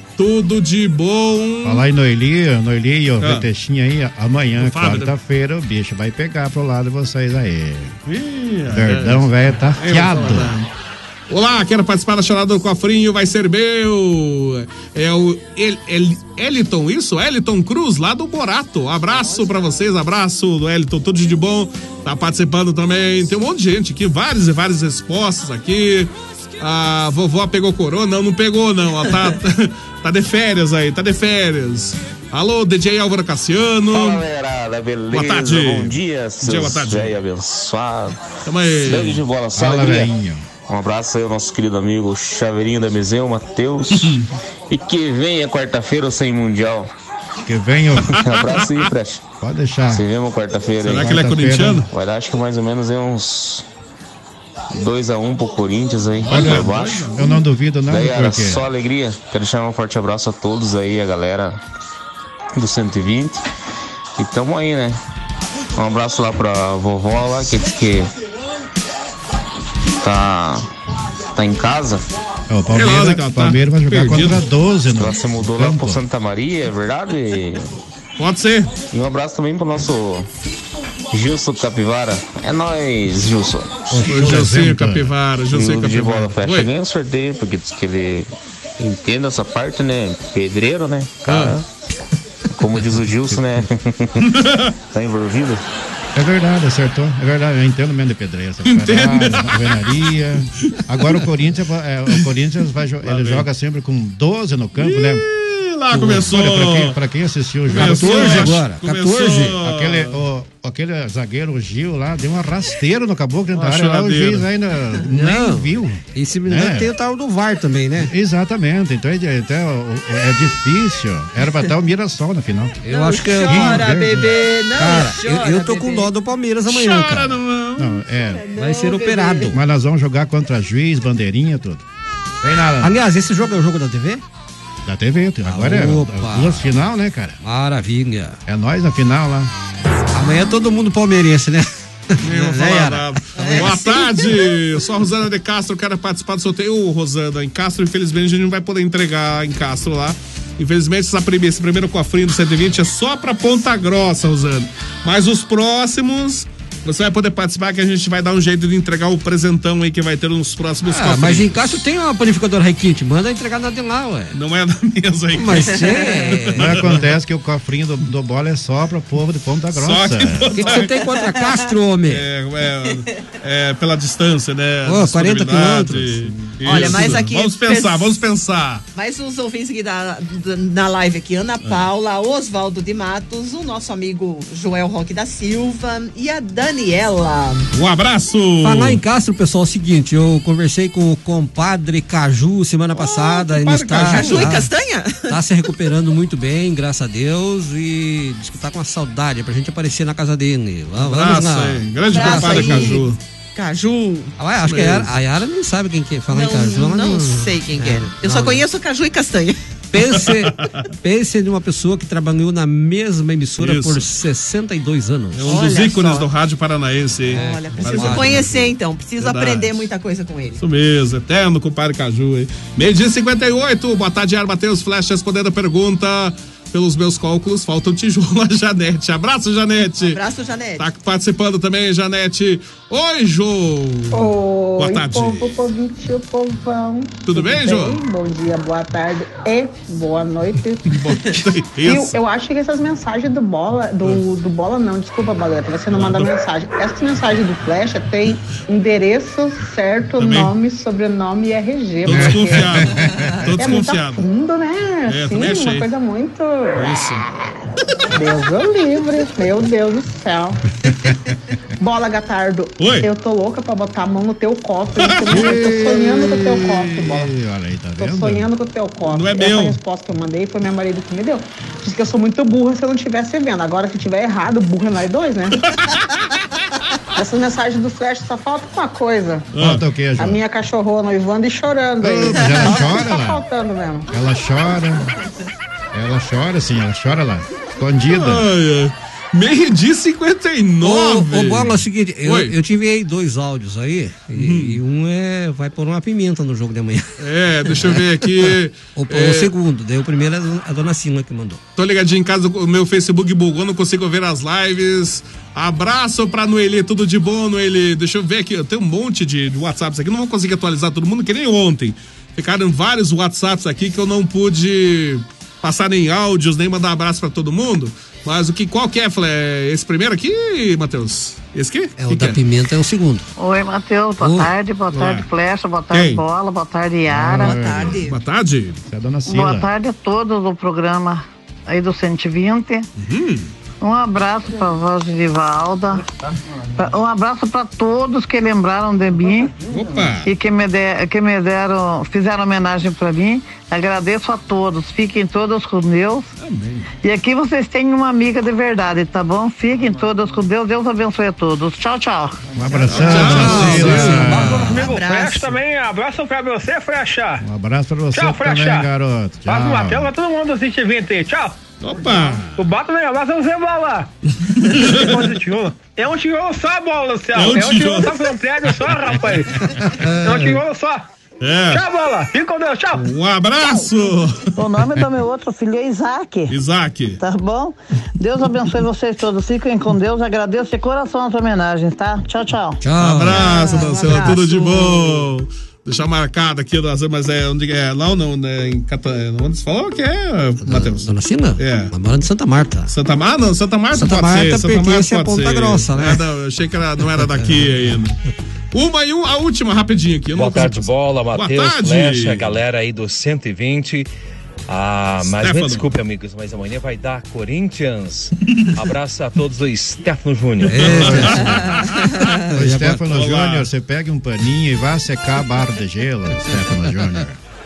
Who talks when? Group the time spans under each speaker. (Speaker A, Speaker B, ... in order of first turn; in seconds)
Speaker A: 0.2-1.8, 3.2-3.5, 4.6-5.1, 8.1-10.7, 11.3-34.2, 35.1-37.2, 38.5-39.2, 43.9-44.3, 48.0-48.9, 50.8-51.9, 56.2-57.4, 72.7-74.5, 78.2-78.8, 84.0-86.7, 91.3-91.6, 94.2-94.7, 98.7-100.1, 103.0-103.5, 104.8-107.0, 107.7-110.2, 113.5-114.5, 126.7-128.0, 142.2-161.8, 164.3-167.2, 169.7-170.9, 172.1-178.8, 187.7-189.0, 193.0-194.6, 201.0-203.2, 204.7-205.1, 210.3-210.8, 213.6-214.0, 215.3-219.9, 220.6-230.2, 230.8-235.6, 237.2-238.0, 240.9-242.2, 245.9-246.3, 250.2-250.5, 252.1-254.2, 255.1-255.9, 256.8-257.3, 262.8-263.1, 265.0-265.5, 269.1-269.8, 279.5-279.8, 288.1-292.5, 294.3-294.8, 297.2-299.5, 301.8-322.4, 324.9-325.3, 325.9-326.2, 327.9-328.8, 333.0-333.5, 339.7-340.3, 346.4-346.9, 352.9-354.9, 361.8-362.6, 364.6-365.4, 367.3-369.4, 371.4-371.9, 372.9-374.5, 376.5-377.2, 383.0-391.9, 392.9-398.2, 398.7-402.6, 405.2-405.9, 410.8-412.3, 413.1-413.7
Speaker B: 1.6-8.0, 8.7-10.5, 39.5-40.5, 47.5-48.2, 49.4-50.0, 50.9-51.9, 56.3-58.6, 72.5-76.0, 83.9-85.1, 93.3-93.7, 96.2-105.2, 106.1-108.6, 109.6-116.9, 118.0-122.8, 123.4-124.3, 127.8-128.4, 129.5-131.8, 132.4-132.9, 134.8-137.4, 138.5-139.5, 166.6-170.5, 252.2-253.3, 265.3-268.5, 279.6-280.4, 282.0-283.4, 284.1-285.1, 285.9-288.5, 327.1-328.0, 328.9-329.7, 352.5-354.8, 357.4-360.1, 410.9-411.5, 412.5-417.4
Speaker C: 33.9-38.2, 38.9-40.1, 40.7-44.2, 44.7-46.9, 48.2-49.2, 49.9-51.1, 51.9-53.6, 54.7-57.1, 57.9-61.6, 62.5-63.4, 64.2-65.0, 65.8-68.1, 70.0-70.7, 71.3-72.0, 75.0-77.7, 78.9-80.3, 81.1-83.9, 85.5-91.6, 92.6-94.2, 94.9-95.6
Speaker D: 105.9-106.4, 107.7-109.6, 115.1-118.1, 122.8-123.9, 124.8-127.4, 128.6-129.6, 132.8-134.2, 135.5-136.7, 137.4-138.4, 140.1-143.1, 160.9-164.4, 165.3-167.0, 170.5-172.2, 174.9-177.0, 188.6-194.7, 195.3-203.0, 204.4-208.6, 209.9-215.6, 217.3-218.6, 290.8-297.2, 299.0-301.6, 322.0-323.3, 324.2-324.5, 353.1-354.3, 369.8-370.6, 382.8-383.4, 390.6-392.9, 393.9-396.2, 397.2-397.9, 410.7-411.6, 412.5-413.1
Speaker E: 122.9-126.1, 128.3-129.5, 143.4-144.4, 176.7-178.2, 178.9-187.7, 194.0-195.4, 202.1-204.3, 206.3-209.6, 215.4-216.3, 217.3-220.6, 230.0-230.8, 327.3-328.2, 353.7-355.6, 383.3-385.3
Speaker F: 234.1-240.9, 241.8-252.9, 253.6-257.0, 258.1-260.6, 261.8-267.3, 268.0-275.7, 277.2-279.5, 280.2-284.1
Speaker G: 323.4-327.6, 329.3-332.9, 333.8-336.0, 336.8-339.5, 340.2-346.3, 347.0-352.5, 373.6-373.9, 374.6-376.6, 377.2-382.8
Speaker H: 354.5-357.4, 358.1-358.9, 359.5-361.5, 362.6-363.6, 364.9-369.4, 370.2-371.0, 371.8-372.9
Speaker I: 400.4-404.1, 404.7-411.2